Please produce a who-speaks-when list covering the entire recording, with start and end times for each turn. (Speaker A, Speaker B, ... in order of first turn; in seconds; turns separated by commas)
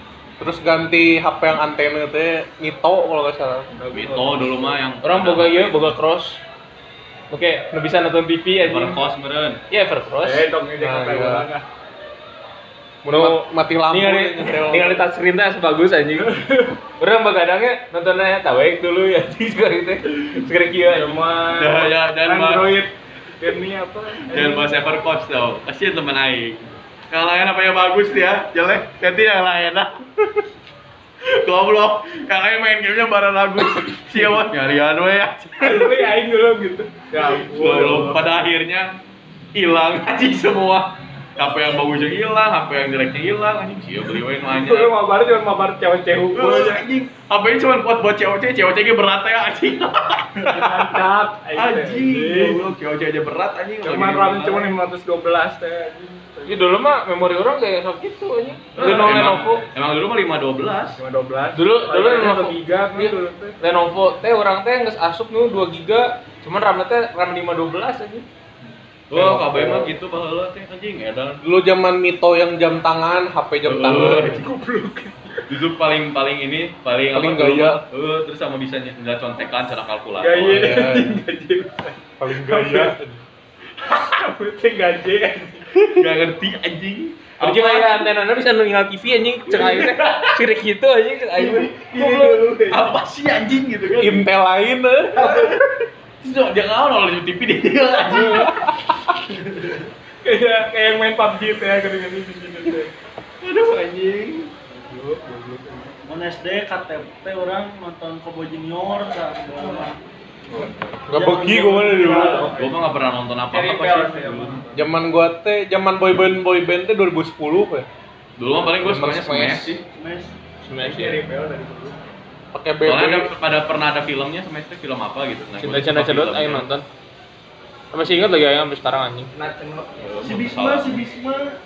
Speaker A: 0.4-3.7, Speaker B: 3.7-4.8, Speaker C: 3.9-5.9, Speaker D: 5.0-6.4, Speaker D: 7.3-9.0, Speaker C: 8.6-9.6, Speaker D: 9.7-10.5, Speaker B: 10.2-11.6, Speaker A: 10.8-11.5, Speaker A: 13.0-15.0, Speaker D: 13.1-16.4, Speaker B: 16.2-16.8, Speaker D: 17.0-21.2, Speaker B: 20.8-24.8, Speaker C: 21.5-22.8, Speaker C: 24.3-29.9, Speaker C: 31.2-36.1, Speaker B: 35.6-38.2, Speaker C: 37.2-39.0, Speaker C: 39.5-44.9, Speaker B: 44.4-46.8, Speaker C: 46.3-50.8, Speaker B: 50.4-52.7, Speaker C: 51.5-54.7, Speaker B: 53.8-56.7, Speaker D: 56.5-59.6, Speaker C: 58.7-61.0, Speaker B: 58.8-59.4, Speaker B: 61.0-63.6, Speaker D: 61.5-62.5, Speaker D: 63.6-68.2, Speaker C: 69.1-71.4, Speaker A: 69.1-69.9, Speaker A: 71.4-74.4, Speaker C: 73.6-74.5, Speaker B: 74.3-75.5, Speaker C: 75.5-80.7, Speaker A: 77.1-77.8, Speaker B: 80.2-82.9, Speaker A: 80.4-81.2, Speaker A: 82.2-83.2, Speaker B: 83.8-85.7, Speaker C: 85.8-88.1, Speaker D: 87.4-91.7, Speaker B: 89.6-90.3, Speaker B: 91.3-92.9, Speaker C: 91.9-94.2, Speaker A: 94.0-95.5, Speaker C: 95.2-95.6, Speaker C: 96.2-98.5, Speaker A: 98.1-98.9, Speaker B: 100.2-102.9, Speaker C: 103.4-104.5, Speaker B: 104.7-106.0, Speaker E: 106.0-110.0, Speaker B: 110.5-111.0, Speaker A: 111.1-112.5, Speaker E: 111.1-112.5, Speaker B: 111.8-112.9, Speaker C: 112.5-114.6, Speaker B: 113.5-114.8, Speaker D: 113.5-114.3, Speaker A: 114.7-117.9, Speaker C: 118.4-119.8, Speaker A: 118.8-119.8, Speaker E: 119.9-120.3, Speaker D: 120.6-121.2, Speaker B: 120.8-122.1, Speaker A: 122.5-123.3, Speaker C: 122.8-126.6, Speaker D: 125.6-126.8, Speaker D: 127.9-129.3, Speaker B: 129.3-130.1, Speaker C: 130.0-131.0, Speaker E: 130.2-131.6